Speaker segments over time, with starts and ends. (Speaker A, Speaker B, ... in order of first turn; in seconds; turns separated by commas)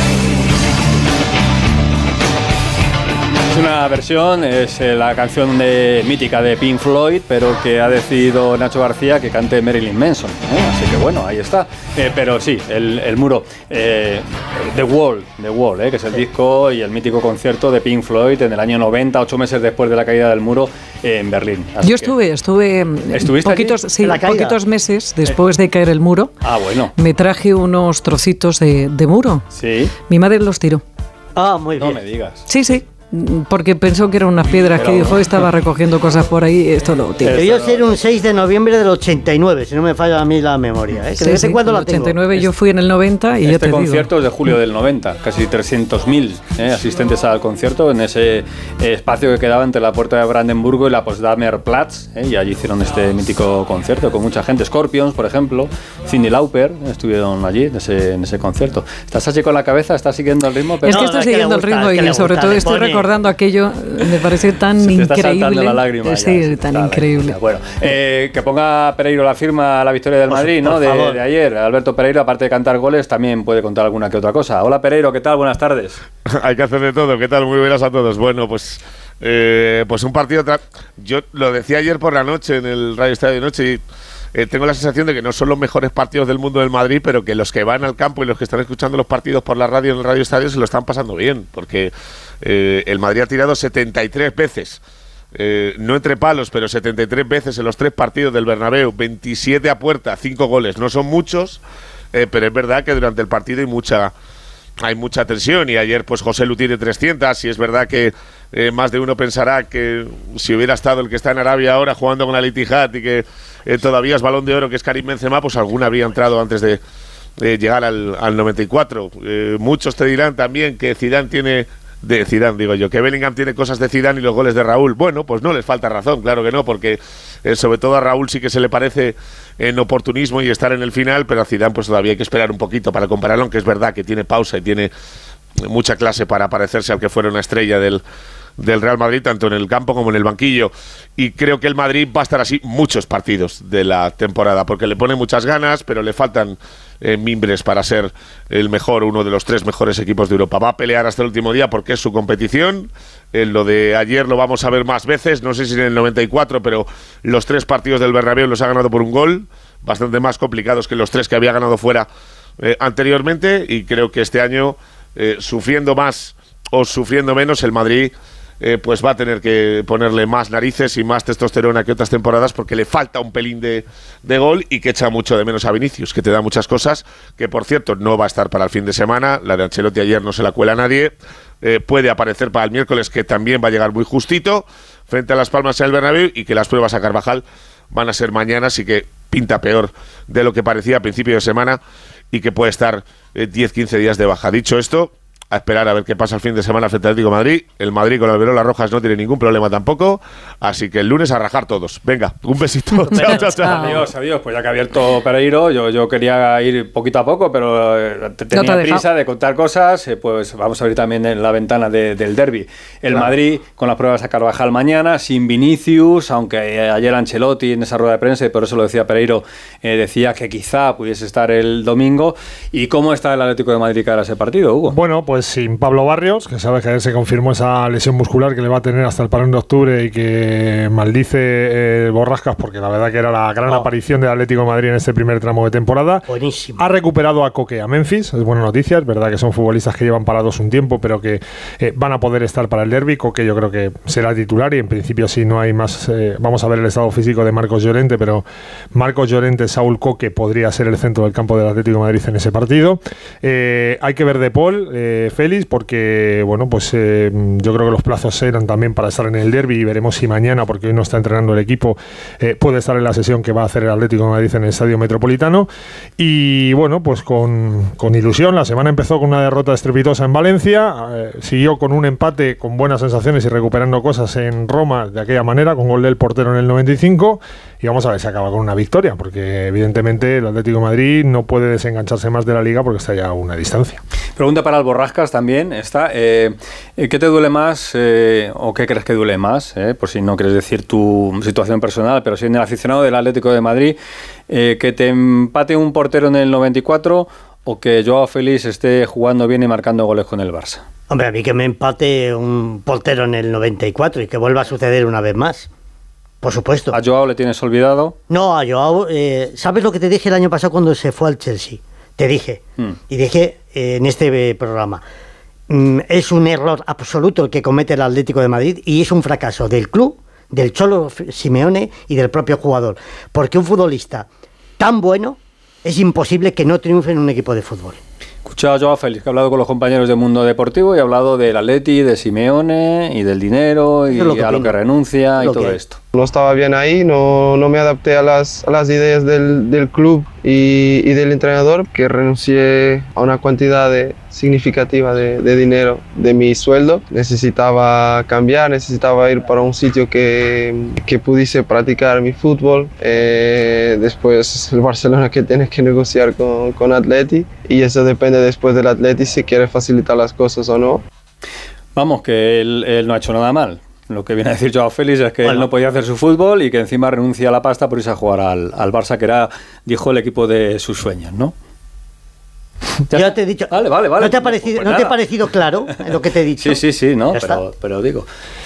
Speaker A: 3.5-22.1, Speaker B: 21.8-26.3, Speaker A: 23.1-23.8, Speaker C: 24.0-24.6, Speaker A: 26.4-26.9, Speaker B: 27.0-29.4, Speaker A: 29.5-29.9, Speaker B: 30.1-30.8, Speaker C: 31.4-32.0, Speaker A: 31.8-32.5, Speaker B: 32.5-37.4, Speaker A: 34.8-35.5, Speaker A: 37.2-37.9, Speaker C: 37.2-42.2, Speaker B: 41.1-44.1, Speaker A: 43.4-61.1, Speaker B: 60.8-67.4, Speaker C: 60.9-63.1, Speaker A: 64.8-76.0, Speaker C: 70.3-71.2, Speaker D: 76.4-83.8, Speaker D: 84.3-94.8, Speaker D: 95.3-101.6, Speaker D: 102.1-104.1, Speaker D: 104.8-116.8, Speaker D: 117.4-134.9, Speaker D: 135.7-138.0, Speaker D: 138.6-162.1, Speaker D: 162.6-191.8, Speaker D: 192.3-203.9, Speaker B: 203.0-204.0, Speaker A: 203.6-225.0, Speaker B: 208.5-209.0, Speaker E: 224.9-284.0, Speaker C: 236.3-236.8, Speaker A: 284.4-294.0, Speaker A: 294.5-300.8, Speaker C: 301.1-305.7, Speaker C: 306.4-307.0, Speaker A: 306.9-308.2, Speaker C: 308.3-315.0, Speaker C: 315.7-324.3, Speaker C: 324.8-328.0, Speaker A: 328.4-336.0, Speaker C: 334.1-334.7, Speaker C: 335.4-335.8, Speaker F: 336.1-361.0, Speaker A: 361.9-371.5, Speaker A: 373.1-375.2, Speaker C: 373.1-377.6, Speaker A: 376.6-378.3